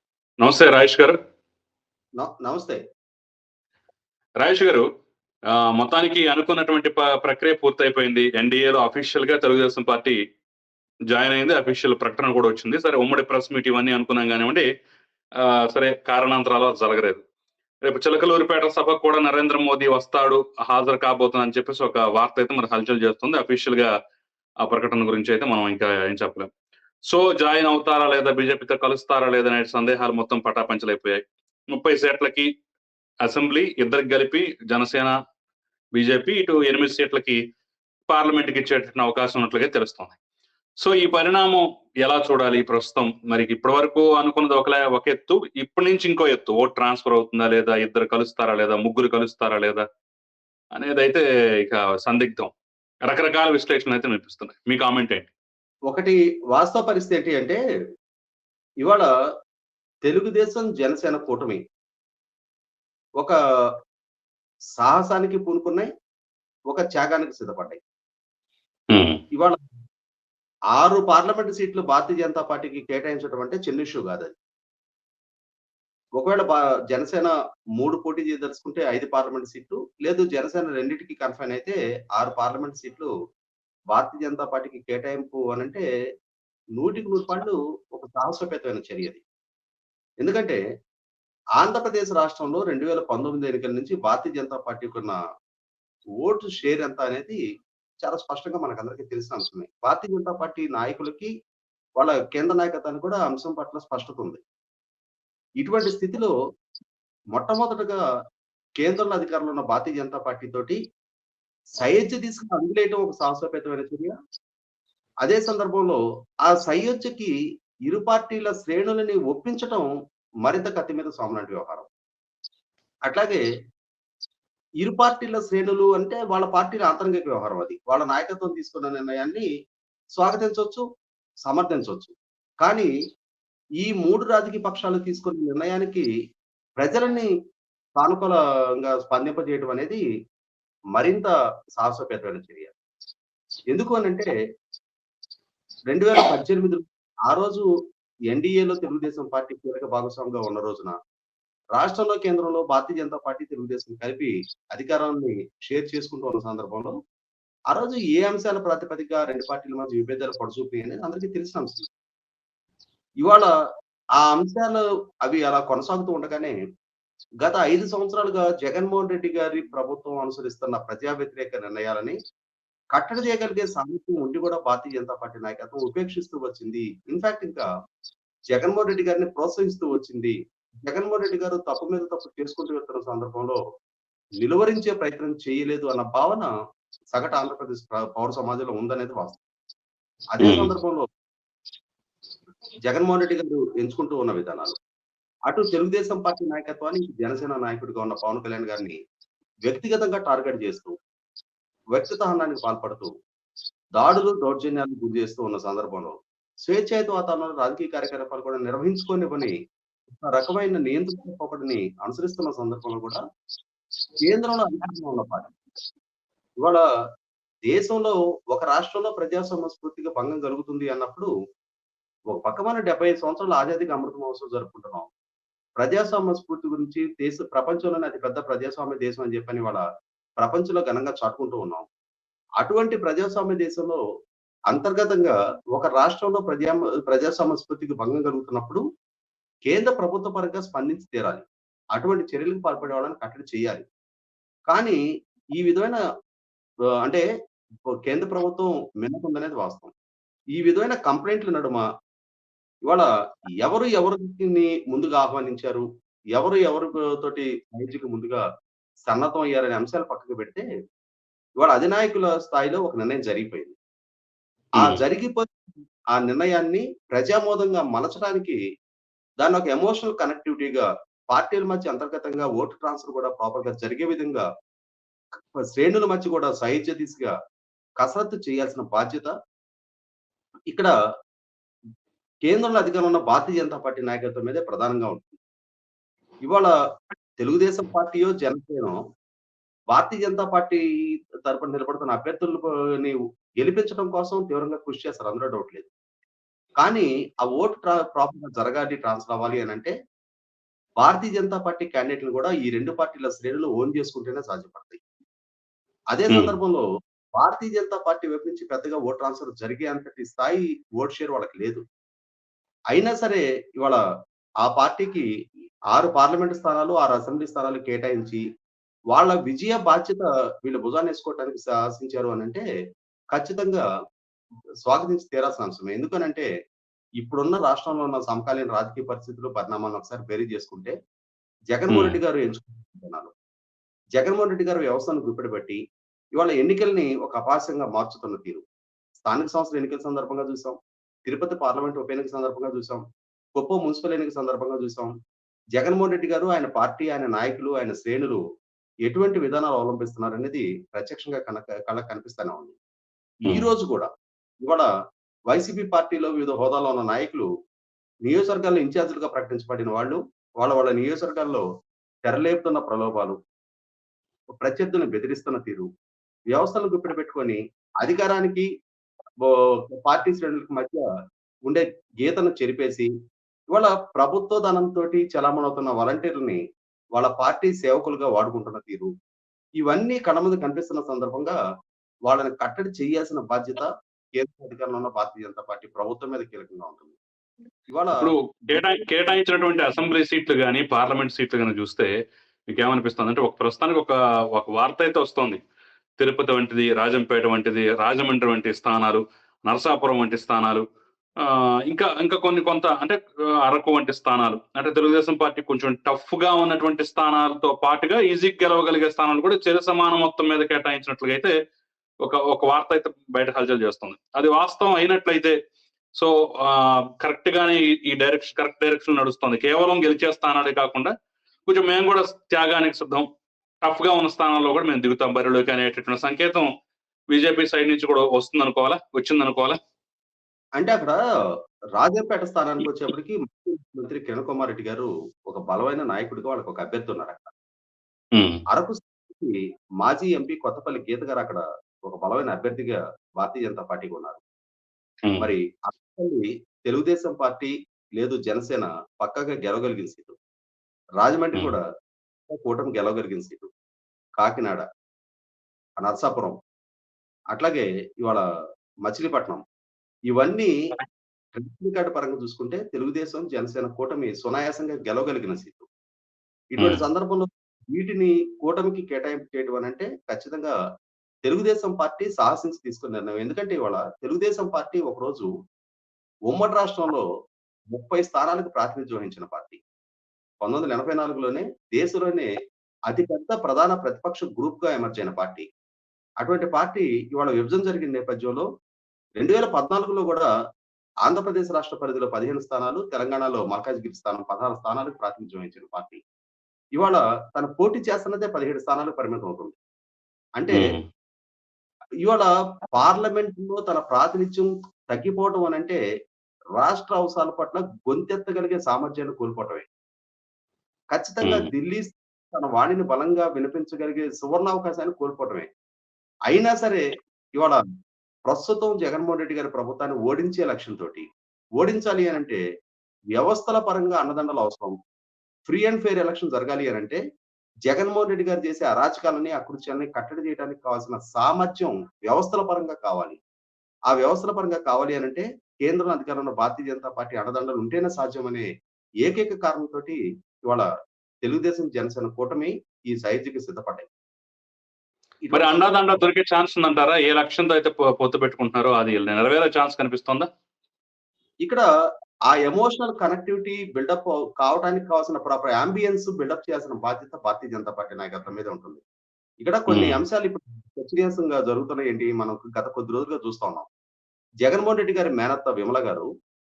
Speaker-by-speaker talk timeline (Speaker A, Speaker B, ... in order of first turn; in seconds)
Speaker A: 0.4-1.1, 4.4-4.8, 5.5-10.2, 11.1-14.7, 15.4-17.2, 17.8-23.9, 24.6-26.5, 27.1-31.2, 31.7-32.5, 33.2-35.1, 36.0-37.4, 38.1-40.2, 40.8-49.8, 50.7-52.5, 53.1-55.3, 68.9-69.2, 190.4-190.7, 331.9-332.2, 388.2-392.1, 392.7-395.6, 396.2-400.8, 401.4-411.5, 412.2-415.6, 416.1-421.1, 421.6-423.2, 423.8-426.7, 427.3-429.8, 438.3-438.6, 466.8-467.0, 500.7-501.0, 511.4-511.7, 545.5-550.5, 559.9-560.2
Speaker B: 2.2-2.8, 55.9-57.6, 60.0-61.6, 64.8-65.9, 66.7-67.8, 70.8-74.3, 76.2-83.1, 83.9-85.8, 86.8-89.2, 90.2-90.6, 91.6-95.2, 96.2-97.4, 98.0-101.3, 102.0-104.4, 105.6-106.3, 107.3-108.0, 108.8-110.8, 111.8-114.1, 115.2-117.3, 117.9-119.8, 120.4-121.9, 123.1-123.4, 124.8-129.5, 130.2-130.8, 131.4-132.1, 132.6-132.9, 133.8-136.0, 136.8-137.3, 138.0-140.0, 140.9-142.7, 143.7-144.3, 145.9-147.6, 148.3-150.9, 151.7-156.9, 157.7-161.9, 163.2-163.5, 164.2-166.5, 167.4-172.1, 172.9-177.6, 178.5-180.3, 180.9-183.6, 184.4-186.5, 187.1-189.4, 190.3-191.0, 192.9-194.8, 195.5-198.9, 199.7-200.9, 201.9-203.1, 204.0-206.1, 206.7-209.5, 210.2-213.2, 214.2-215.5, 217.7-221.3, 222.3-225.1, 225.8-229.8, 230.4-231.8, 232.6-234.0, 234.7-238.8, 239.7-241.4, 241.9-243.8, 244.7-245.0, 245.6-246.0, 247.9-249.9, 250.5-251.8, 253.6-255.8, 256.4-258.4, 259.1-260.6, 261.6-263.8, 264.8-265.4, 266.1-268.6, 269.4-274.4, 275.6-277.3, 278.0-279.3, 282.5-285.4, 286.4-286.7, 287.4-289.0, 289.9-290.8, 291.4-295.9, 296.8-299.9, 301.0-305.0, 306.1-306.8, 307.4-311.8, 312.9-314.0, 314.6-315.2, 315.9-318.4, 319.1-322.6, 323.3-323.8, 324.9-326.5, 327.2-330.9, 331.7-333.3, 334.2-335.8, 336.4-338.6, 339.2-340.7, 341.2-343.0, 343.6-345.1, 345.8-348.4, 349.1-352.7, 353.4-354.1, 355.5-357.4, 358.2-361.6, 362.2-363.4, 364.6-365.9, 366.5-368.6, 369.4-371.0, 371.7-373.1, 373.7-376.6, 377.1-379.1, 379.8-381.6, 382.3-383.9, 384.4-387.2, 387.9-388.8, 430.8-431.2, 432.0-437.5, 438.7-444.4, 445.4-450.4, 451.2-451.8, 452.5-453.7, 454.4-454.8, 456.0-456.5, 457.5-458.4, 459.1-459.6, 460.3-460.7, 461.6-465.9, 466.7-470.7, 471.4-475.5, 476.5-477.2, 477.9-479.8, 480.6-482.5, 483.1-485.6, 486.4-488.6, 489.4-490.5, 491.2-496.2, 496.9-499.8, 502.2-506.0, 506.8-509.9, 511.1-515.7, 516.5-517.0, 517.6-517.8, 518.5-521.2, 521.8-522.6, 523.4-524.9, 525.6-527.2, 527.9-533.4, 534.1-538.6, 539.2-540.8, 541.4-544.1, 545.4-546.2, 552.5-559.0, 559.6-563.9, 564.6-566.3